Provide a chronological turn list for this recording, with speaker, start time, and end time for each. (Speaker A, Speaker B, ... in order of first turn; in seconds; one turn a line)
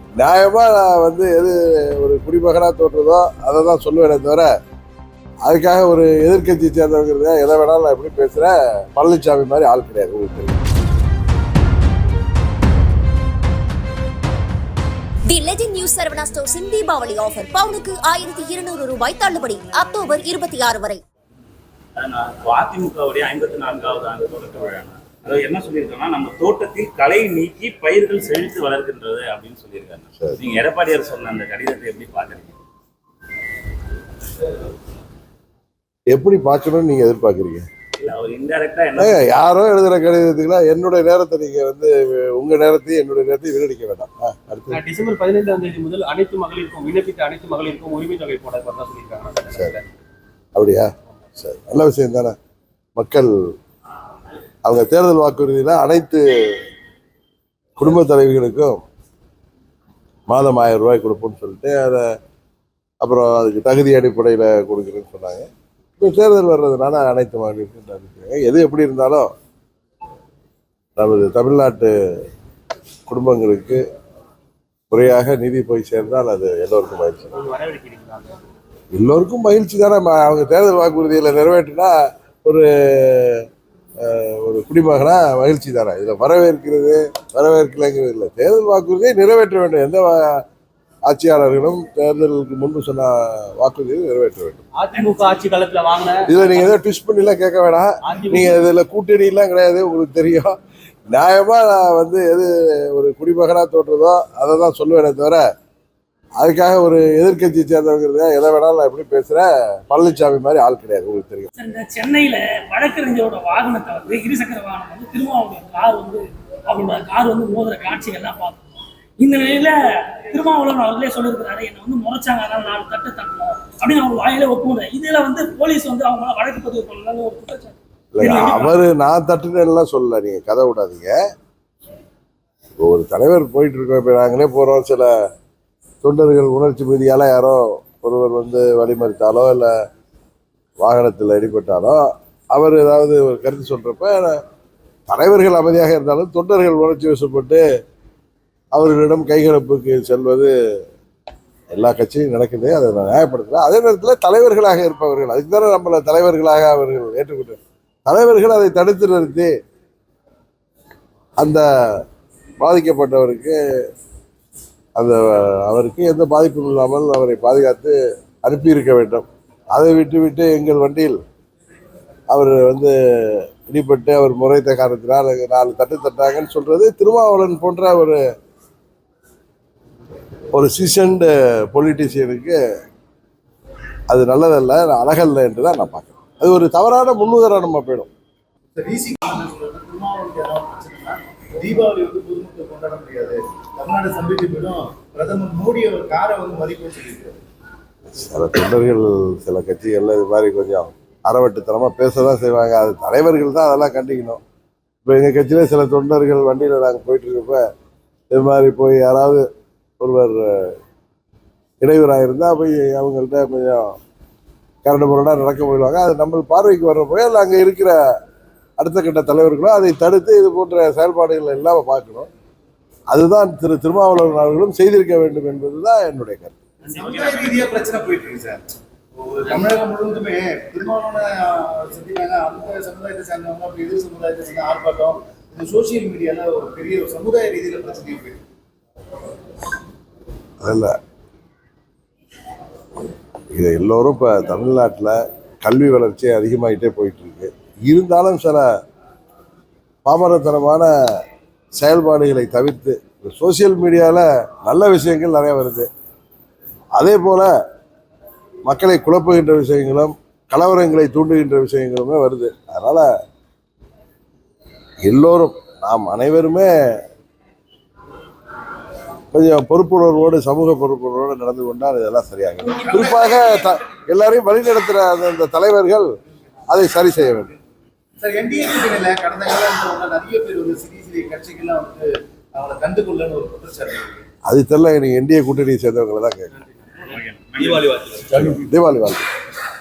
Speaker A: 0.2-4.5
Speaker A: 5.5-10.6
Speaker B: 15.3-21.0
Speaker C: 22.0-32.6
Speaker A: 36.1-37.7
Speaker C: 38.0-39.3
Speaker A: 39.0-44.8
Speaker D: 44.7-49.8
Speaker A: 49.5-49.8
Speaker A: 50.5-52.4
Speaker A: 53.0-53.3
Speaker A: 54.6-56.6
Speaker A: 57.8-58.8
Speaker A: 60.3-62.0
Speaker A: 63.0-65.5
Speaker A: 66.0-69.3
Speaker A: 71.0-71.9
Speaker A: 73.1-73.8
Speaker A: 74.9-77.3
Speaker D: 77.3-78.3
Speaker A: 78.9-81.9
Speaker A: 82.4-83.5
Speaker A: 84.0-90.4
Speaker A: 91.1-94.7
Speaker D: 94.8-96.7
Speaker A: 96.3-100.5
Speaker D: 98.1-98.6
Speaker A: 101.1-105.4
Speaker A: 106.4-111.5
Speaker E: 111.6-118.6
Speaker E: 119.2-128.8
Speaker A: 128.1-131.2
Speaker A: 132.8-135.1
Speaker A: 136.0-139.7
Speaker A: 140.8-142.0
Speaker A: 142.5-144.4
Speaker A: 145.1-147.6
Speaker A: 148.7-150.5
Speaker A: 151.7-159.5
Speaker A: 161.4-162.0
Speaker A: 162.6-163.6
Speaker A: 164.9-171.2
Speaker A: 172.3-178.2
Speaker A: 180.5-182.6
Speaker A: 184.1-188.1
Speaker F: 188.8-197.4
Speaker A: 198.1-204.4
Speaker A: 205.1-207.6
Speaker A: 208.3-209.4
Speaker A: 210.0-210.8
Speaker A: 211.8-213.9
Speaker A: 214.8-218.0
Speaker A: 218.8-222.3
Speaker A: 223.1-226.6
Speaker F: 226.8-228.6
Speaker C: 227.1-227.6
Speaker F: 229.2-238.4
Speaker A: 240.6-240.9
Speaker A: 243.5-248.7
Speaker A: 250.1-251.2
Speaker A: 251.8-255.9
Speaker A: 257.0-257.5
Speaker A: 258.7-263.1
Speaker A: 265.1-266.7
Speaker A: 269.3-276.1
Speaker F: 272.7-273.4
Speaker A: 276.7-277.5
Speaker F: 278.2-284.2
Speaker A: 284.5-286.5
Speaker C: 287.0-288.5
Speaker A: 288.3-289.2